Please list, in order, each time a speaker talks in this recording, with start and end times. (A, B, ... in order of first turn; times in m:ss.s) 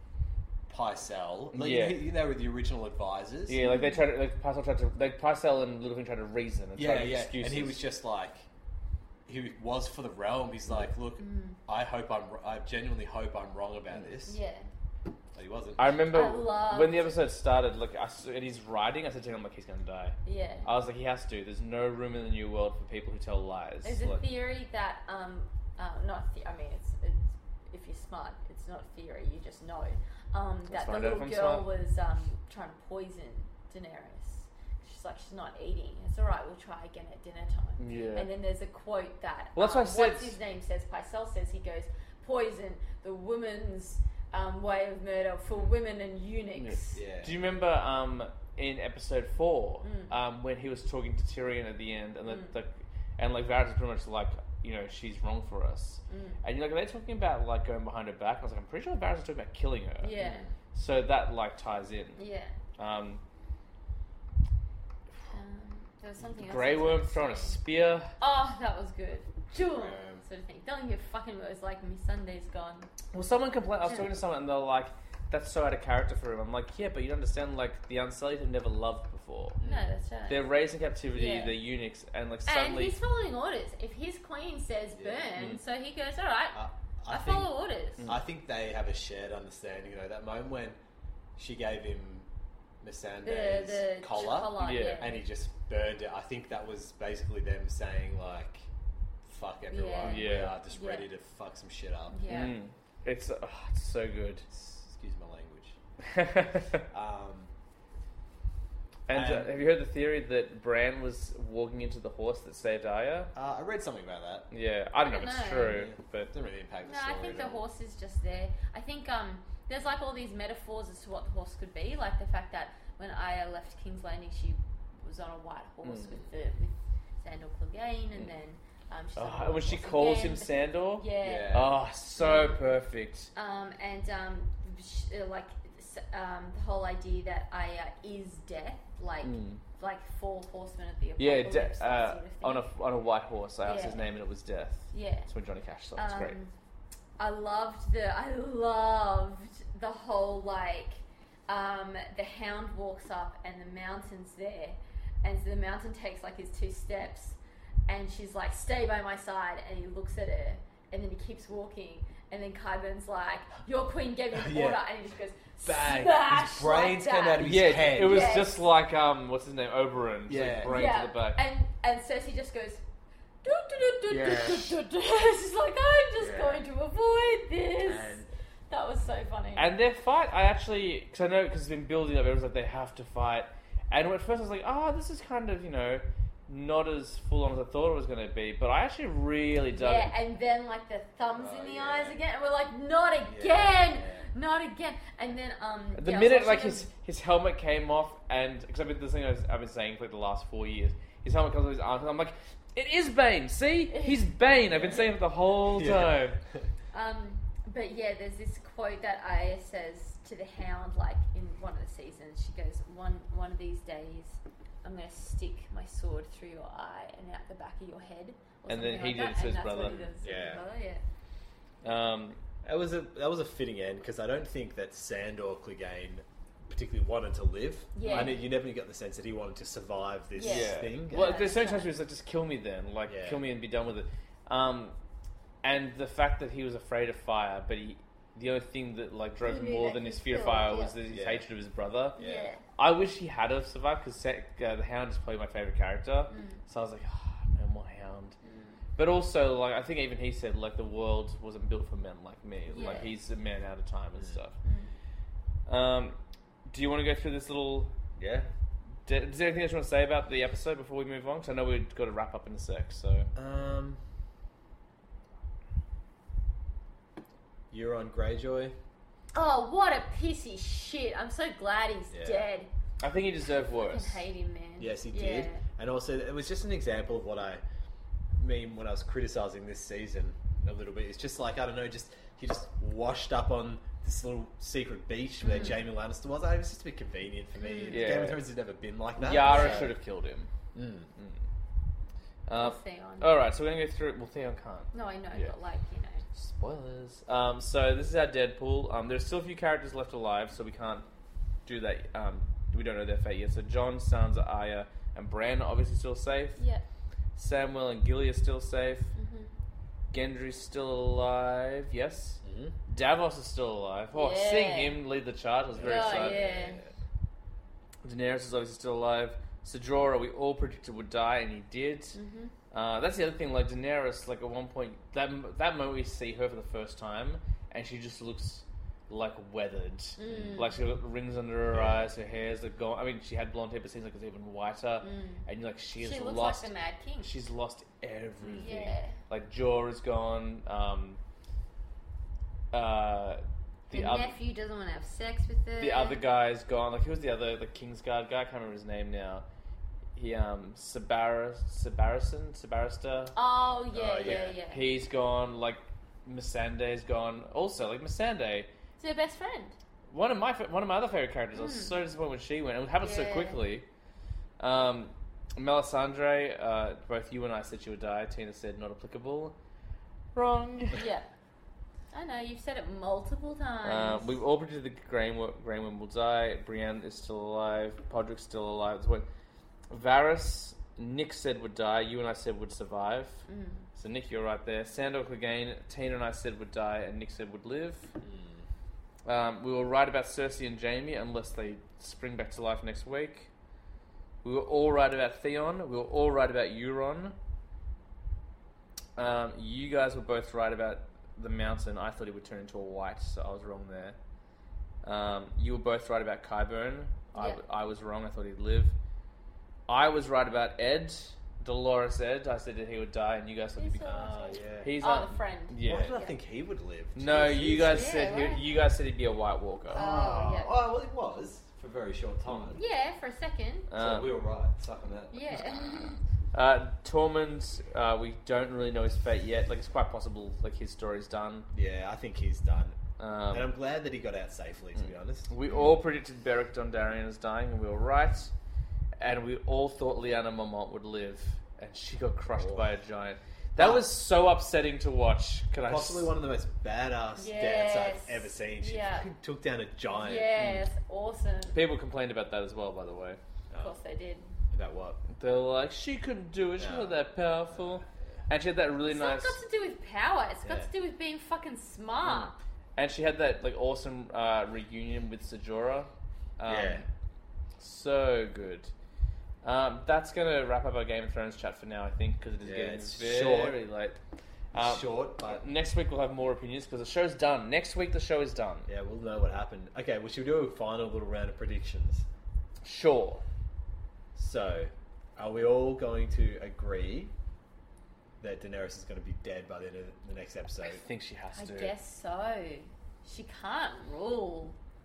0:00.7-0:03.6 A
0:01.5-0:02.0 B
0:03.5-0:07.8 B
0:03.6-0:04.0 C
0:06.8-0:08.5 A
0:09.3-0:14.4 A
0:11.2-0:11.6 C
0:14.2-0:14.7 C
0:15.3-0:16.0 A
0:15.8-0:24.2 B
0:16.1-0:17.1 C
0:20.2-0:20.7 C
0:23.8-0:47.0 C
0:30.7-0:31.7 B
0:37.8-0:38.3 B
0:39.6-0:40.4 B
0:46.6-1:00.2 B
0:46.9-0:47.4 A
0:49.8-0:50.1 C
0:52.2-0:52.5 C
0:56.1-0:56.4 C
1:00.0-1:00.5 C
1:00.2-1:00.5 A
1:00.7-1:02.2 B
1:02.2-1:02.5 C
1:02.8-1:03.2 B
1:05.3-1:07.6 C
1:06.3-1:08.1 B
1:08.2-1:12.9 C
1:09.6-1:10.2 A
1:13.1-1:19.6 B
1:19.6-1:19.9 A
1:19.6-1:20.4 C
1:20.3-1:23.0 B
1:21.1-1:21.6 C
1:22.4-1:28.1 C
1:24.9-1:25.3 A
1:26.5-1:27.5 A
1:28.0-1:30.8 A
1:31.4-1:32.3 A
1:32.8-1:38.7 A
1:33.2-1:35.2 C
1:34.6-1:35.1 B
1:39.2-1:42.4 A
1:39.7-1:41.1 C
1:40.0-1:40.6 B
1:42.1-1:42.6 C
1:42.3-1:44.4 B
1:44.5-1:45.8 A
1:46.0-1:46.8 B
1:46.9-1:47.5 A
1:49.1-1:53.3 B
1:49.1-1:49.5 A
1:53.3-1:54.5 A
1:54.5-1:56.3 B
1:55.0-1:55.8 C
1:55.6-1:57.6 A
1:56.8-2:11.7 C
2:05.8-2:06.1 B
2:09.2-2:13.3 B
2:11.2-2:11.8 A
2:12.2-2:12.7 C
2:13.3-2:22.7 C
2:19.2-2:19.6 B
2:21.2-2:26.4 B
2:23.6-2:24.1 C
2:24.9-2:25.3 C
2:26.0-2:26.5 C
2:27.2-2:48.6 C
2:44.3-2:44.8 A
2:45.6-2:48.5 A
2:47.4-2:51.4 B
2:50.3-2:50.9 A
2:50.6-2:52.8 C
2:53.4-2:59.7 C
2:54.1-2:54.8 A
2:56.2-2:56.6 A
2:57.8-2:58.3 A
2:59.6-3:10.1 B
3:09.7-3:16.9 C
3:11.3-3:12.2 A
3:13.2-3:14.3 A
3:16.0-3:26.4 B
3:23.9-3:24.3 C
3:24.7-3:26.6 A
3:26.9-3:41.0 C
3:38.7-3:40.2 B
3:40.2-3:40.6 A
3:41.8-3:42.4 B
3:42.6-3:51.5 A
3:47.9-3:48.4 C
3:48.0-3:48.4 B
3:50.4-3:51.9 C
3:50.4-3:55.0 B
3:53.1-3:53.4 A
3:55.6-4:02.2 B
3:59.4-4:01.0 C
4:01.1-4:01.4 A
4:02.2-4:02.5 A
4:02.2-4:02.6 C
4:02.8-4:08.4 B
4:06.3-4:06.6 C
4:08.4-4:08.8 C
4:09.0-4:14.6 B
4:12.7-4:13.1 C
4:14.6-4:14.9 C
4:15.7-4:16.2 B
4:16.7-4:17.9 B
4:18.2-4:18.5 A
4:19.0-4:23.3 B
4:23.3-4:24.0 A
4:27.7-4:28.8 A
4:29.3-4:32.7 C
4:32.1-4:32.5 A
4:33.0-4:34.2 B
4:33.8-4:35.6 C
4:34.8-4:37.6 A
4:38.4-4:49.9 A
4:45.4-4:45.8 C
4:47.6-4:48.1 C
4:47.9-4:48.4 B
4:49.2-4:50.5 B
4:49.3-4:49.9 C
4:50.7-4:51.1 A
4:51.2-4:51.4 B
4:52.4-4:55.5 B
4:52.5-4:53.3 C
4:54.9-4:56.2 C
4:56.3-5:01.0 B
5:01.6-5:06.6 B
5:06.6-5:06.8 C
5:07.4-5:09.1 B
5:09.1-5:09.5 C
5:10.1-5:16.5 B
5:12.4-5:12.7 A
5:14.1-5:15.0 C
5:15.7-5:16.9 A
5:15.8-5:16.8 C
5:18.0-5:22.2 B
5:22.1-5:22.5 C
5:22.7-5:36.7 B
5:30.2-5:30.7 C
5:30.3-5:30.6 A
5:31.7-5:32.1 A
5:35.0-5:35.4 C
5:36.0-5:37.3 C
5:37.2-5:41.2 B
5:38.4-5:38.9 A
5:38.6-5:39.2 C
5:42.7-5:44.4 B
5:43.9-5:46.2 C
5:45.8-5:49.4 B
5:50.1-5:53.3 B
5:53.3-5:54.9 C
5:53.9-5:54.5 A
5:54.2-5:58.7 B
5:59.0-5:59.8 C
6:00.1-6:03.8 B
6:01.5-6:01.9 C
6:03.0-6:03.6 C
6:04.6-6:09.5 B
6:10.3-6:11.0 B
6:10.9-6:11.2 C
6:12.1-6:14.3 C
6:13.8-6:19.2 B
6:19.9-6:23.4 B
6:23.5-6:23.8 C
6:24.0-6:28.1 B
6:28.2-6:28.6 A
6:29.2-6:33.5 B
6:34.4-6:37.3 B
6:39.2-6:44.2 B
6:45.0-6:48.9 B
6:47.3-6:47.6 C
6:49.9-6:56.1 B
6:53.8-6:56.4 C
6:54.0-6:54.9 A
6:55.8-6:58.2 A
6:57.2-7:00.0 B
6:57.9-6:58.6 C
6:59.9-7:02.8 A
6:59.9-7:00.8 C
7:02.7-7:03.9 C
7:03.9-7:04.3 B
7:04.0-7:06.0 A
7:05.3-7:06.1 C
7:06.5-7:11.7 B
7:11.7-7:13.0 A
7:13.2-7:13.7 B
7:13.5-7:15.5 A
7:15.0-7:18.5 B
7:19.2-7:26.3 B
7:22.6-7:22.9 A
7:23.8-7:24.0 A
7:25.9-7:30.5 A
7:27.4-7:29.3 C
7:30.1-7:31.8 C
7:30.6-7:30.8 B
7:31.7-7:33.4 B
7:33.7-7:34.0 A
7:33.8-7:34.5 C
7:34.7-7:35.2 A
7:35.3-7:39.6 B
7:36.8-7:38.4 A
7:39.0-7:42.6 C
7:40.6-7:40.9 A
7:42.2-7:47.0 B
7:46.6-7:47.0 A
7:47.8-7:48.9 B
7:49.6-7:54.2 B
7:52.6-7:53.8 A
7:54.7-7:55.6 A
7:54.7-7:58.9 B
7:58.9-8:02.2 A
8:02.8-8:03.4 B
8:04.3-8:07.3 A
8:08.4-8:11.0 A
8:10.8-8:11.9 B
8:11.5-8:14.8 C